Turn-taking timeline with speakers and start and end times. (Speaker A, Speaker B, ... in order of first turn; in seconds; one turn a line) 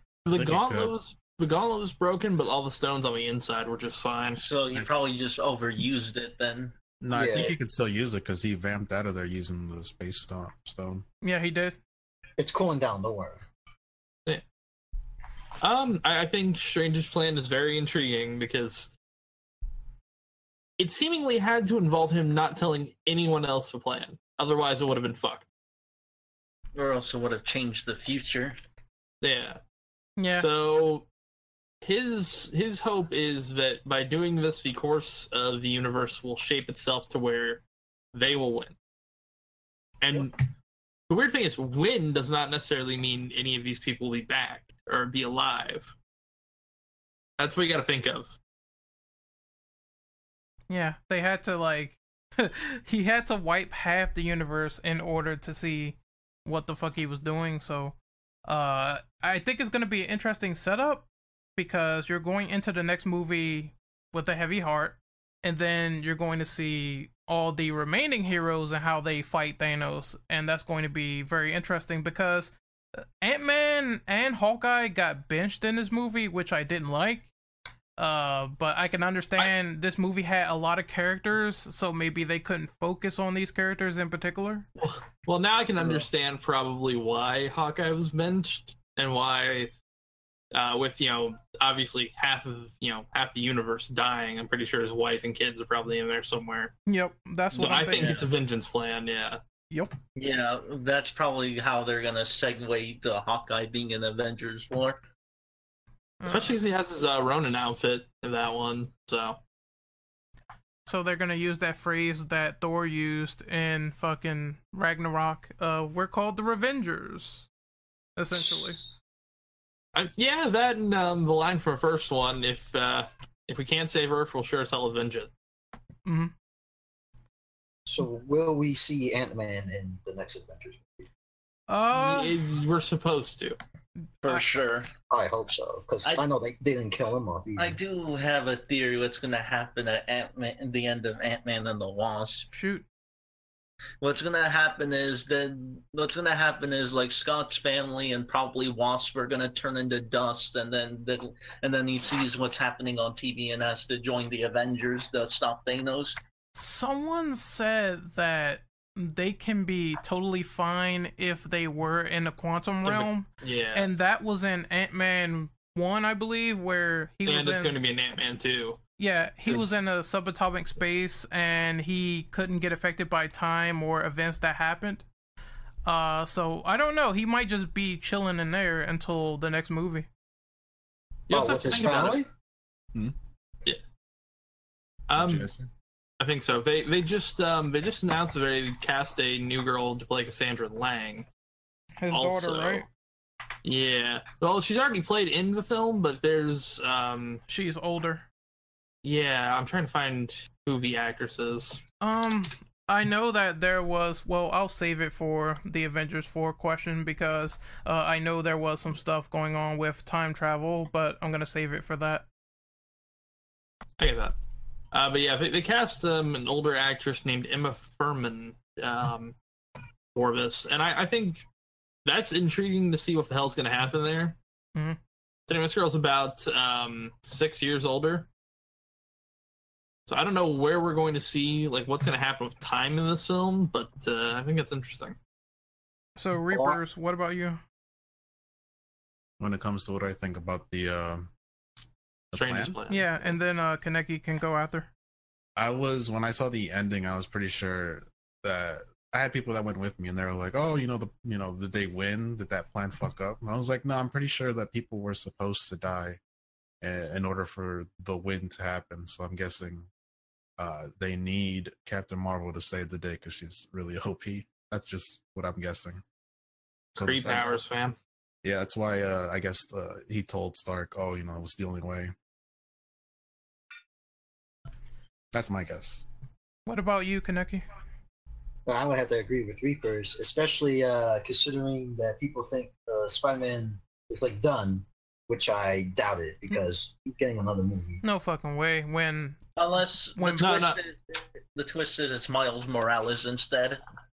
Speaker A: 0.2-4.4
Speaker B: 0.3-0.9
Speaker C: 4.4-6.8
Speaker B: 7.0-11.1
Speaker D: 7.1-7.5
Speaker E: 11.2-11.8
Speaker D: 12.4-13.4
Speaker A: 15.6-18.9
Speaker A: 20.8-25.5
Speaker C: 26.8-28.6
Speaker A: 29.2-29.6
Speaker E: 30.2-30.5
Speaker A: 30.3-31.1
Speaker A: 31.8-37.6
Speaker A: 38.1-38.8
Speaker A: 40.0-40.4
Speaker A: 41.1-45.9
Speaker A: 47.4-48.4
Speaker E: 50.7-72.5
Speaker E: 73.2-77.3
Speaker E: 78.0-84.7
Speaker A: 84.8-89.7
Speaker A: 90.5-96.7
Speaker E: 96.9-98.2
Speaker A: 97.5-99.4
Speaker C: 97.9-98.3
Speaker C: 100.2-105.0
Speaker E: 106.2-106.5
Speaker A: 106.3-109.4
Speaker E: 110.9-117.5
Speaker E: 118.2-118.8
Speaker D: 118.5-118.8
Speaker A: 120.0-125.3
Speaker E: 126.1-126.3
Speaker D: 127.9-131.1
Speaker E: 131.7-132.4
Speaker A: 131.9-133.6
Speaker C: 134.2-134.9
Speaker D: 135.1-137.8
Speaker C: 137.6-142.5
Speaker E: 142.5-142.8
Speaker C: 144.0-156.2
Speaker E: 156.6-167.8
Speaker A: 162.8-163.9
Speaker A: 167.3-168.8
Speaker E: 169.0-175.1
Speaker E: 175.8-180.1
Speaker A: 181.3-182.2
Speaker D: 181.3-182.3
Speaker A: 185.1-185.5
Speaker B: 185.2-185.7
Speaker A: 186.2-191.3
Speaker E: 192.0-192.9
Speaker A: 192.1-192.9
Speaker A: 193.6-197.4
Speaker E: 197.5-198.2
Speaker A: 199.0-201.8
Speaker E: 202.0-212.3
Speaker A: 214.0-214.4
Speaker A: 214.9-219.4
Speaker A: 220.2-221.4
Speaker A: 222.1-224.4
Speaker A: 225.5-228.3
Speaker A: 230.1-235.2
Speaker E: 236.2-237.6
Speaker D: 236.5-236.8
Speaker B: 239.4-241.3
Speaker B: 242.3-242.8
Speaker A: 242.3-243.4
Speaker E: 242.9-244.9
Speaker B: 245.6-256.2
Speaker B: 256.8-259.9
Speaker B: 260.6-266.0
Speaker A: 266.9-268.0
Speaker B: 267.0-267.6
Speaker B: 268.4-272.1
Speaker B: 275.3-276.0
Speaker E: 276.7-277.6
Speaker D: 278.7-288.0
Speaker E: 288.0-289.4
Speaker C: 289.6-293.8
Speaker E: 290.2-290.6
Speaker A: 290.4-290.8